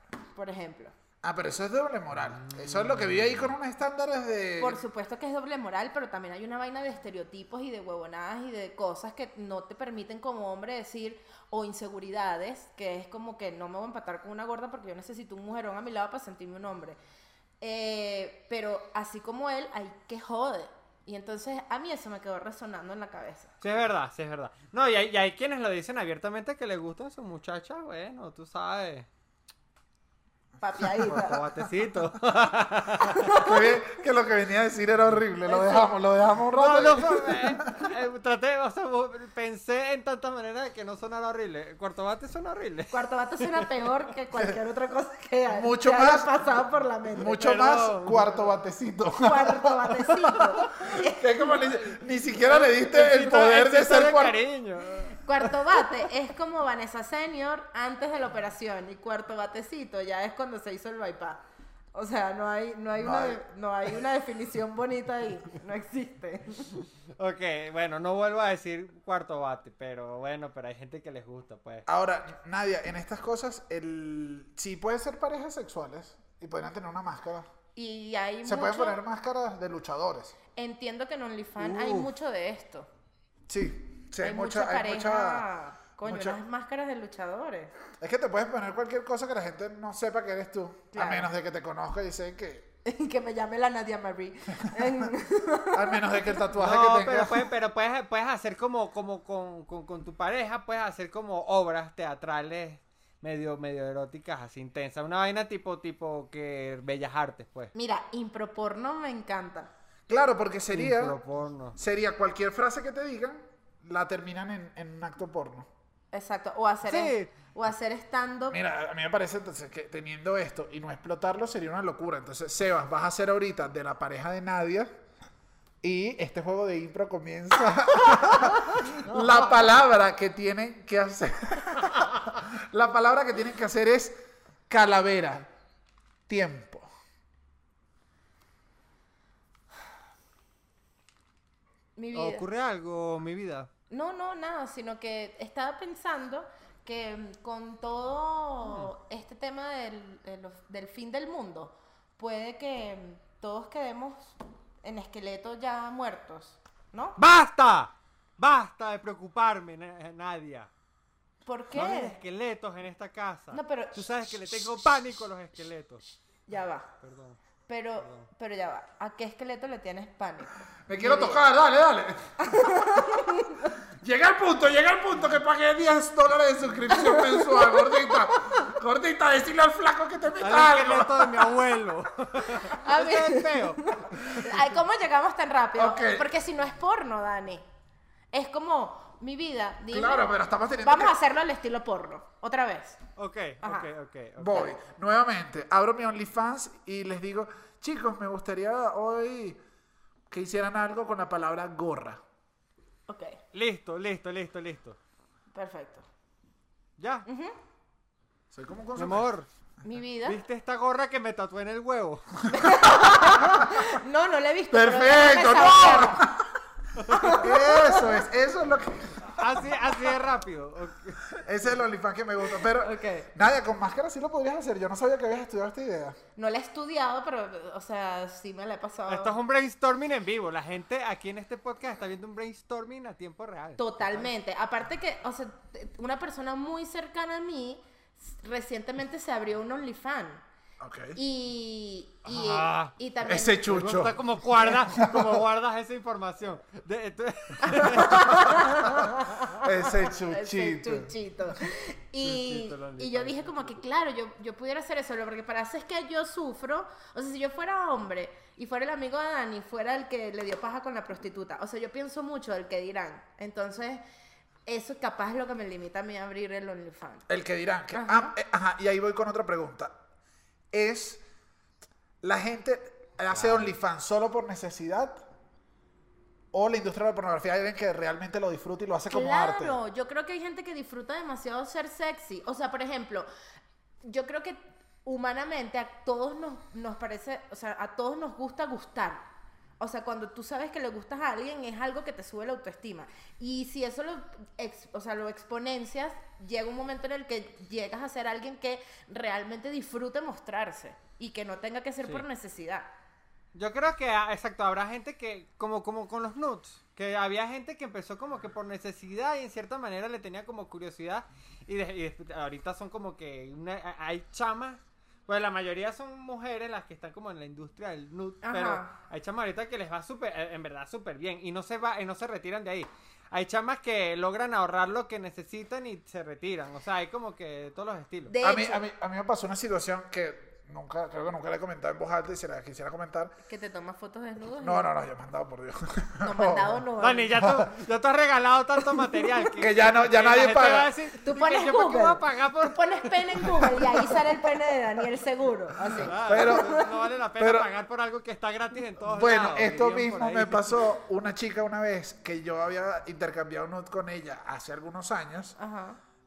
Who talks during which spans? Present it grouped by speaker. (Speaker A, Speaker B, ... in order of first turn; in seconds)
Speaker A: 0.3-0.9, 4.6-17.0, 17.6-23.5, 30.6-31.5, 33.1-33.6, 35.5-35.9, 42.9-47.4, 49.2-51.6, 55.2-61.4, 61.9-66.8, 77.7-79.0, 80.5-82.9, 84.2-87.7, 90.9-91.3, 92.8-96.4, 107.7-109.7, 116.1-118.6, 141.9-142.4, 143.9-157.2, 161.4-162.2, 163.5-164.0, 166.5-166.9, 167.7-171.4, 172.4-173.7, 176.9-177.7, 182.6-187.6, 188.3-190.3, 190.8-193.0, 193.6-193.9, 203.1-203.4, 205.5-206.0, 207.2-207.6, 209.8-210.4, 212.5-216.3, 217.1-218.2, 222.7-223.3, 226.3-229.3, 233.8-240.4, 241.2-243.7, 247.6-264.0, 264.6-267.2, 267.9-268.3, 279.1-283.3, 284.0-289.2, 289.8-302.9, 318.4-318.9, 328.3-328.8, 333.5-334.9, 336.2-337.5, 341.2-346.9, 355.6-356.0
Speaker B: 1.2-4.8, 33.3-37.9, 45.5-46.3, 47.1-54.4, 63.0-63.4, 71.9-77.5, 78.4-80.3, 83.5-85.5, 86.0-86.4, 88.0-92.7, 94.7-95.1, 95.7-97.5, 110.1-111.2, 111.7-115.7, 118.5-124.9, 125.8-134.2, 134.7-135.5, 136.3-136.9, 170.9-173.1, 174.0-181.5, 185.7-186.3, 189.9-191.1, 194.4-199.6, 200.3-202.2, 208.5-209.3, 214.7-216.5, 217.2-219.6, 221.3-226.2, 240.8-241.2, 243.2-245.4, 249.6-251.1, 267.3-269.9, 270.7-271.2, 272.2-275.2, 276.5-279.8, 328.4-333.4, 334.6-336.8, 337.4-337.7, 339.6-340.9, 345.9-346.8, 347.4-347.7, 349.0-355.6
Speaker C: 2.4-3.4, 23.6-29.1, 31.1-33.3, 36.5-43.7, 47.4-48.5, 52.4-55.7, 67.2-71.8, 81.7-82.0, 96.5-107.7, 110.7-111.8, 116.8-117.3, 142.1-143.7, 157.2-160.7, 161.7-166.0, 167.0-167.4, 168.0-168.3, 180.4-184.0, 193.2-194.7, 203.5-205.0, 207.0-207.2, 208.9-209.5, 210.2-212.3, 219.3-221.2, 229.1-234.3, 242.2-242.9, 243.7-248.8, 252.2-253.8, 273.4-273.6, 303.5-328.3, 337.0-344.0, 346.0-350.8